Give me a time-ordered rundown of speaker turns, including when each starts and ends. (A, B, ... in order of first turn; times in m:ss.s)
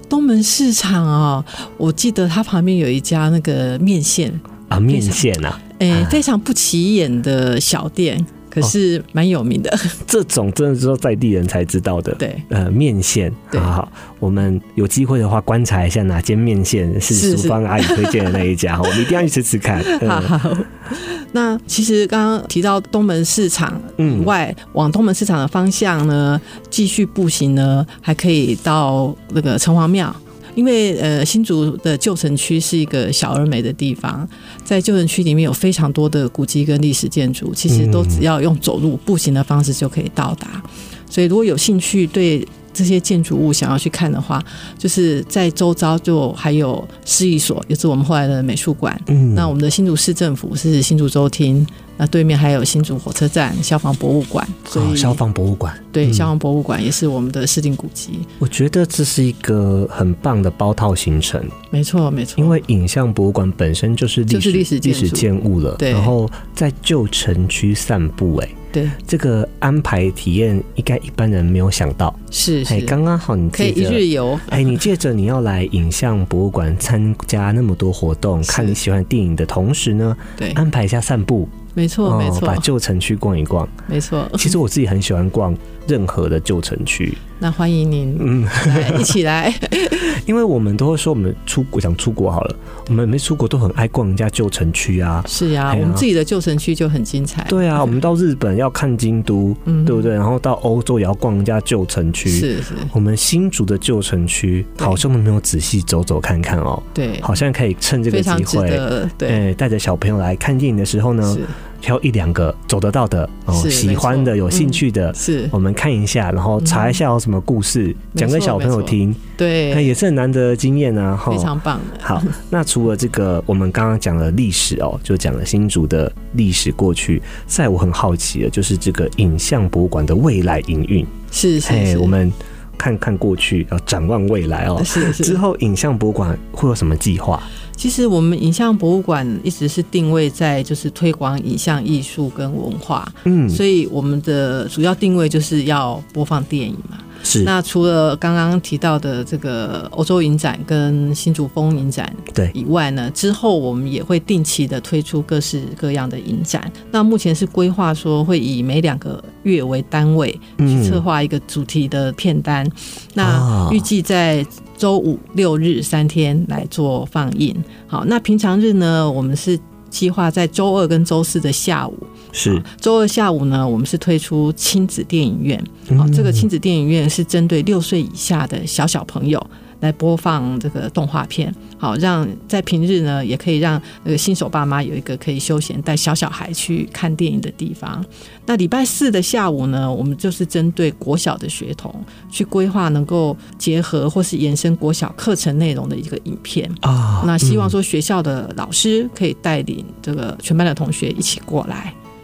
0:00.1-0:10.0 A
0:04.7-0:06.2 B
0:10.0-0:20.3 B
0:12.2-0:12.4 A
0:17.1-0:19.1 A
0:19.8-0:55.2 A
0:24.0-0:24.3 B
0:37.7-0:38.2 B
0:49.1-0:49.5 B
0:54.7-0:56.3 B
0:55.9-0:58.3 A
0:58.4-1:01.5 B
1:01.7-1:02.6 A
1:02.4-1:23.8 B
1:04.3-1:06.2 A
1:08.7-1:09.0 A
1:12.3-1:13.0 A
1:13.5-1:14.8 A
1:18.4-1:18.8 A
1:21.8-1:22.7 A
1:23.9-1:24.6 A
1:24.4-1:27.2 B
1:27.4-1:30.2 A
1:28.2-1:29.2 B
1:29.9-1:36.1 B
1:35.3-1:37.9 A
1:37.5-2:11.1 B
1:39.7-1:40.1 A
1:42.3-1:42.9 A
1:47.0-1:47.4 A
1:48.1-1:49.4 A
1:51.2-1:51.6 A
1:53.5-1:55.6 A
1:56.6-1:57.0 A
1:58.1-2:00.0 A
2:01.3-2:02.4 A
2:11.3-2:12.2 A
2:11.6-2:17.5 B
2:14.8-2:15.4 A
2:17.8-3:22.0 A
2:23.2-2:23.6 B
2:27.2-2:27.5 B
2:40.6-2:41.0 B
2:43.2-2:43.9 B
2:52.3-2:52.6 B
2:55.9-2:56.5 B
3:16.8-3:17.8 B